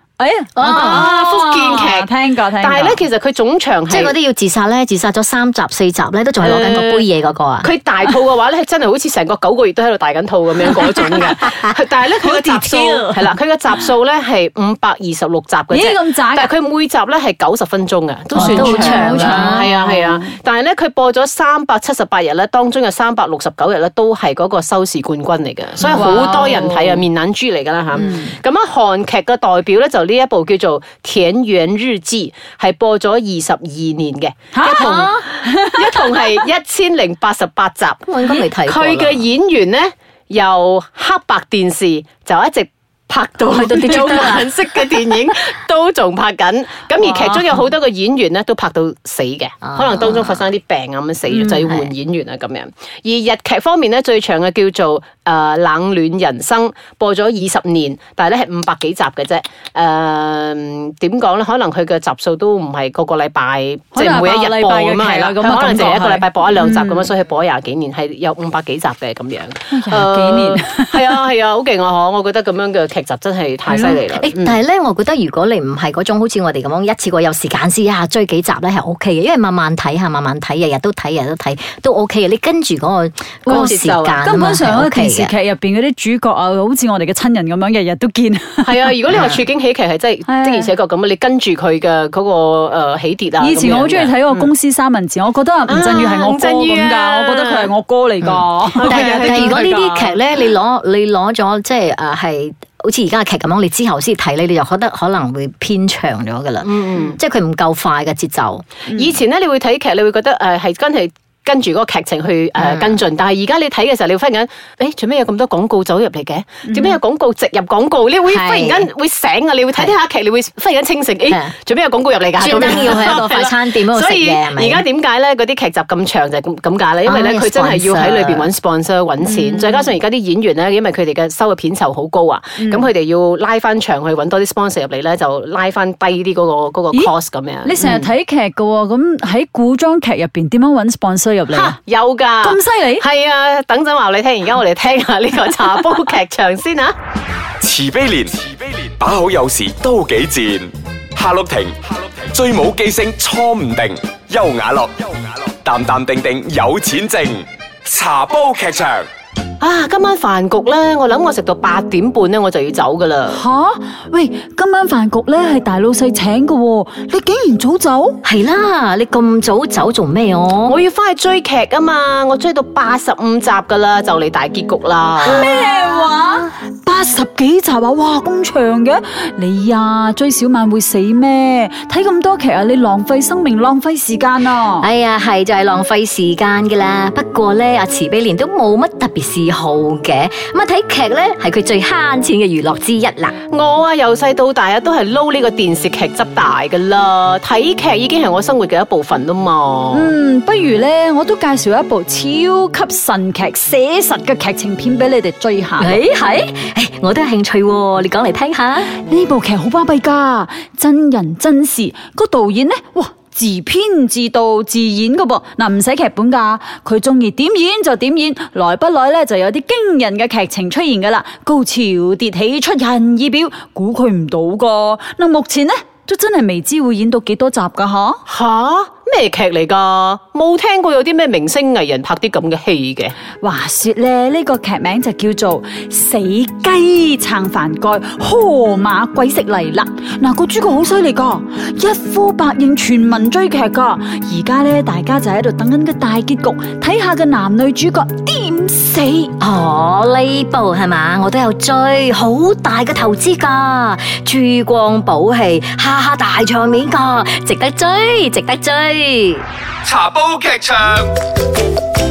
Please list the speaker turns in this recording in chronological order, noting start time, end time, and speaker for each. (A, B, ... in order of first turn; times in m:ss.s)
0:00.2-0:03.0 A
0:00.6-0:01.1 B
0:00.7-0:02.1 C
0:02.6-0:04.1 C
0:03.9-0:07.7 B
0:06.4-0:07.1 C
0:07.6-1:14.6 C
0:10.6-0:11.2 A
0:12.2-0:13.3 A
0:15.7-0:16.5 A
0:18.3-0:19.7 B
0:18.3-0:20.3 A
0:25.8-0:27.0 A
0:27.9-0:28.3 B
0:34.5-0:36.4 A
0:34.7-0:35.2 B
0:38.1-0:39.2 B
0:43.5-0:44.6 B
0:47.0-0:47.4 A
0:49.6-0:50.4 B
1:03.9-1:07.1 A
1:09.7-1:11.2 A
1:13.7-1:14.1 A
1:14.1-1:25.3 B
1:23.5-1:24.2 C
1:23.5-1:28.9 A
1:28.6-1:34.5 C
1:29.1-1:29.4 B
1:30.2-1:30.7 A
1:33.4-1:39.8 A
1:35.7-1:37.7 C
1:38.2-1:40.1 C
1:38.8-1:48.6 B
1:46.6-1:47.2 C
1:48.9-2:18.1 C
1:52.6-1:53.0 B
1:56.7-1:57.0 A
1:58.2-1:58.9 B
2:02.4-2:04.8 B
2:02.6-2:03.2 A
2:07.0-2:08.5 B
2:09.2-2:09.9 A
2:12.6-2:12.9 A
2:17.6-2:21.7 A
2:21.5-2:26.9 C
2:22.4-2:23.0 A
2:27.6-2:39.1 D
2:39.6-2:43.4 C
2:43.3-2:48.2 A
2:48.2-2:50.8 B
2:50.6-2:55.5 C
2:55.2-2:56.5 B
2:55.2-3:04.9 A
3:04.8-3:13.3 B
3:13.5-3:20.1 C
3:19.9-3:26.0 A
3:25.8-3:28.9 B
3:28.9-3:48.2 A
3:48.3-3:53.1 C
3:53.4-4:09.3 A
4:09.4-4:19.4 B
4:19.8-4:21.1 D